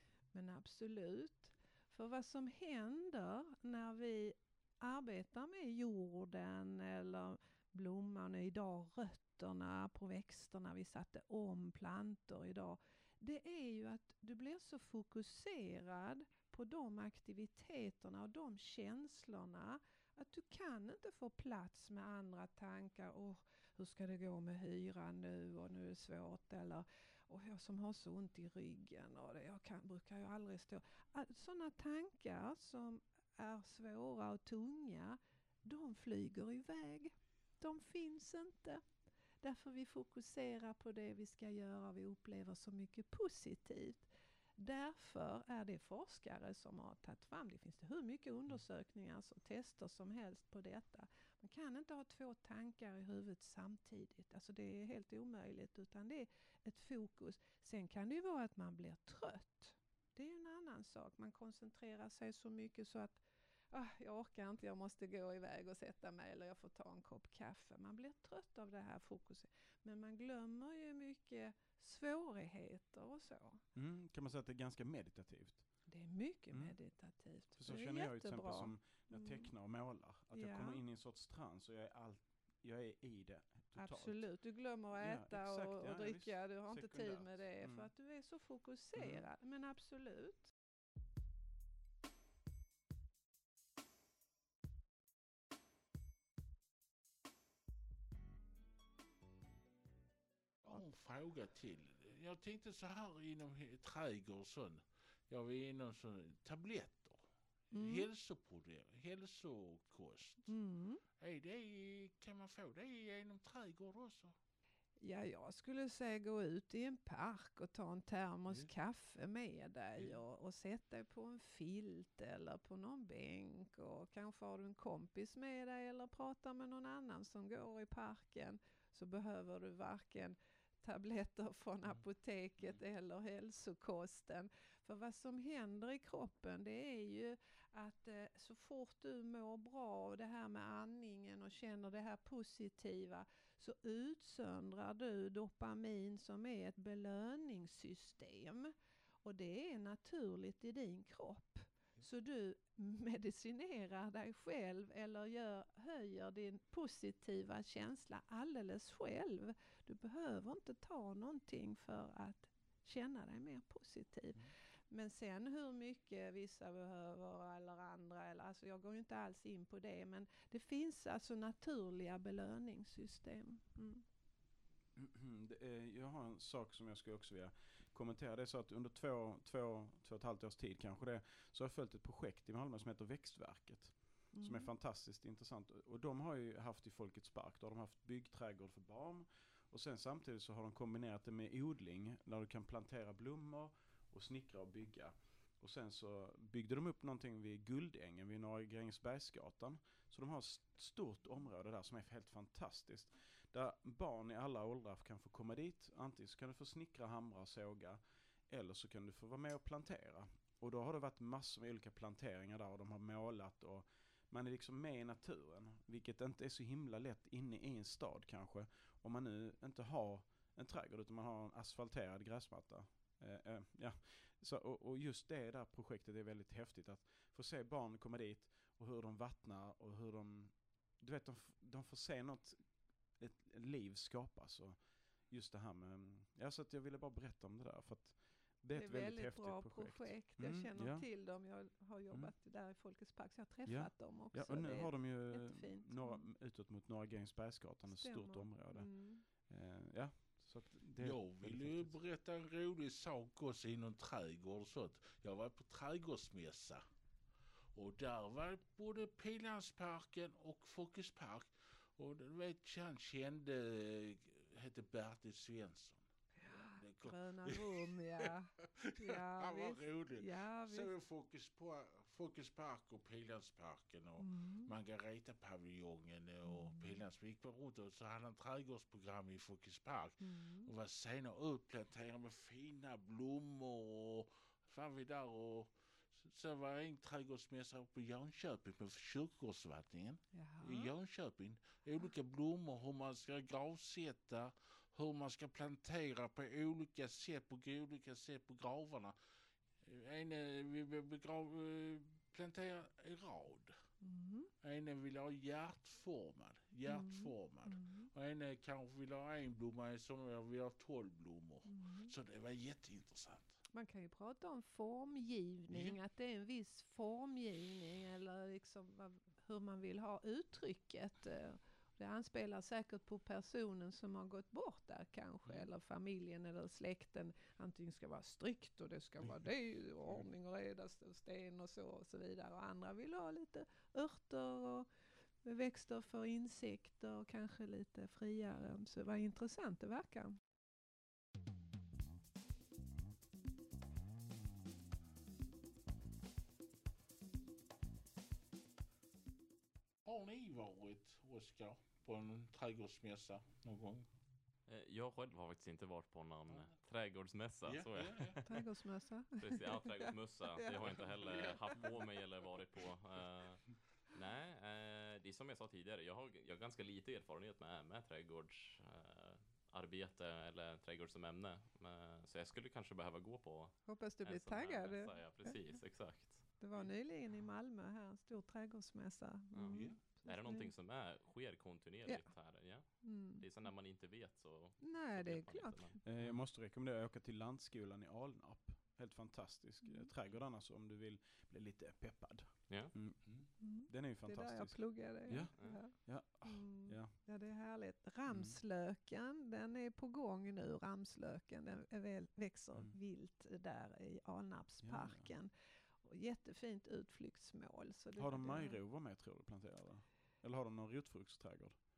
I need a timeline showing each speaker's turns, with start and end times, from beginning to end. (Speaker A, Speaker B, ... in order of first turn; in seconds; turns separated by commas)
Speaker A: 0.3-38.8, Speaker A: 39.4-73.6, Speaker B: 73.7-75.7, Speaker A: 75.9-79.5, Speaker B: 76.5-76.8, Speaker B: 77.5-84.3, Speaker A: 80.3-80.8, Speaker A: 83.8-90.5, Speaker B: 85.0-87.9, Speaker B: 89.0-89.2, Speaker C: 100.6-110.5, Speaker A: 107.7-108.1, Speaker A: 110.5-111.0, Speaker C: 111.2-114.3, Speaker A: 115.0-174.0, Speaker B: 174.9-241.1, Speaker A: 184.3-184.7, Speaker A: 238.7-246.2, Speaker B: 243.7-251.9, Speaker A: 247.9-249.2, Speaker C: 251.0-256.8, Speaker C: 257.7-266.1, Speaker A: 266.4-270.9, Speaker C: 266.6-299.1, Speaker A: 274.2-274.7, Speaker A: 276.4-277.0, Speaker A: 280.2-280.7, Speaker A: 290.3-290.9, Speaker C: 299.8-303.7, Speaker A: 304.0-304.5, Speaker C: 304.6-313.6, Speaker A: 306.9-308.1, Speaker A: 311.6-312.1, Speaker A: 313.7-334.9, Speaker C: 315.7-316.0, Speaker A: 335.4-340.4, Speaker C: 350.0-354.1, Speaker D: 354.7-358.7, Speaker C: 356.5-356.8, Speaker C: 357.6-358.4, Speaker A: 358.4-361.8, Speaker D: 359.4-376.5, Speaker C: 361.1-361.8, Speaker A: 373.9-380.7, Speaker D: 379.5-386.0, Speaker C: 379.7-380.0, Speaker A: 382.1-383.4, Speaker A: 384.8-386.0, Speaker B: 386.0-397.1, Speaker C: 386.1-386.4, Speaker A: 389.8-390.1, Speaker D: 392.7-392.9, Speaker A: 393.6-408.8, Speaker B: 398.3-398.6, Speaker B: 404.8-405.3, Speaker B: 408.1-411.8